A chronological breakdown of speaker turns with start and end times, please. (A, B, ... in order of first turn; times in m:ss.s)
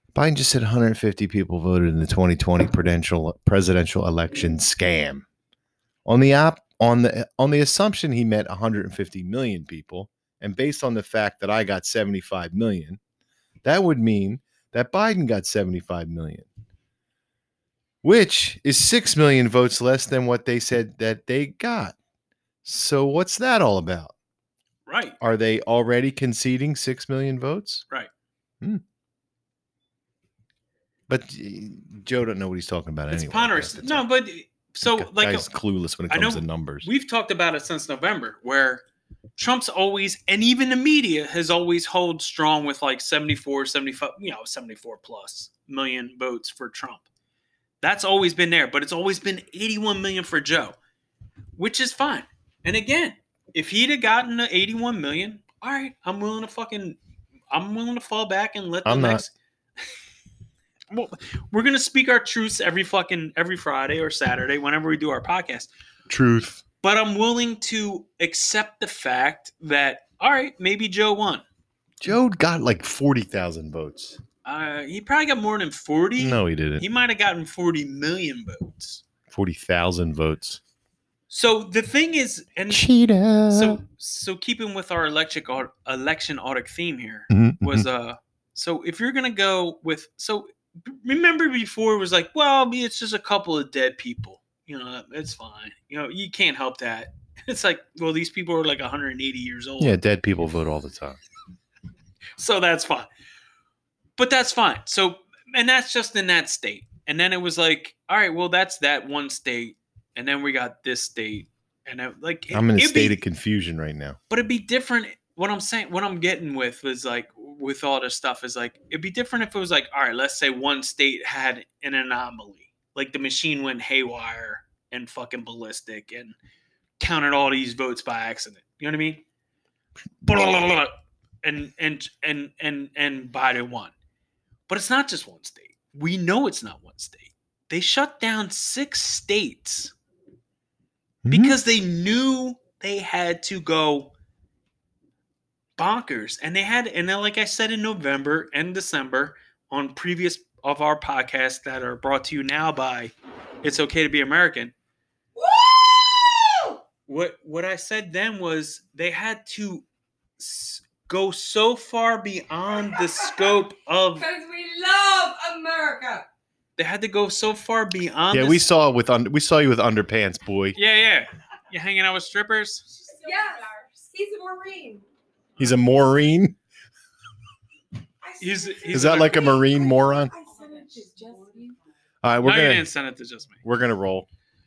0:00.1-0:05.2 A
0:06.0-0:13.0 A
0:13.6-0:16.4 A
0:18.0-0:22.0 A
0:22.6-0:24.1 A
0:24.9-0:25.2 B
0:25.2-0:27.8 A
0:31.1-0:34.0 A
0:33.1-0:35.4 B
0:34.8-0:36.9 A
0:36.1-0:38.8 B
0:39.4-0:47.0 B
0:47.8-0:50.8 B
0:51.6-0:57.0 B
0:57.5-0:59.3 B
0:58.8-0:59.2 A
1:00.9-1:05.7 B
1:06.1-1:06.6 A
1:06.8-1:11.4 B
1:12.0-1:14.2 A
1:14.4-1:19.0 B
1:16.2-1:16.8 A
1:19.3-1:20.6 A
1:21.3-1:22.8 B
1:22.7-1:23.8 A
1:23.5-1:40.0 B
1:27.3-1:27.9 A
1:39.8-1:41.2 A
1:42.4-1:43.1 B
1:44.2-1:53.2 B
1:52.5-1:54.2 A
1:54.3-2:06.4 B
2:07.0-2:09.2 B
2:10.2-2:10.9 B
2:11.4-2:13.9 B
2:14.7-2:19.9 B
2:21.2-2:21.6 A
2:21.3-2:24.1 B
2:25.8-2:34.7 B
2:35.4-2:36.8 C
2:37.1-2:39.8 B
2:40.4-2:44.2 B
2:42.9-2:43.4 C
2:44.2-2:46.3 C
2:46.8-2:48.7 B
2:48.3-2:50.8 A
2:50.7-2:52.8 B
2:52.9-2:55.1 C
2:55.6-2:56.6 A
2:58.2-3:01.8 C
2:58.4-2:59.6 B
2:58.9-3:00.3 A
3:02.2-3:02.9 A
3:02.4-3:03.6 B
3:03.6-3:04.3 A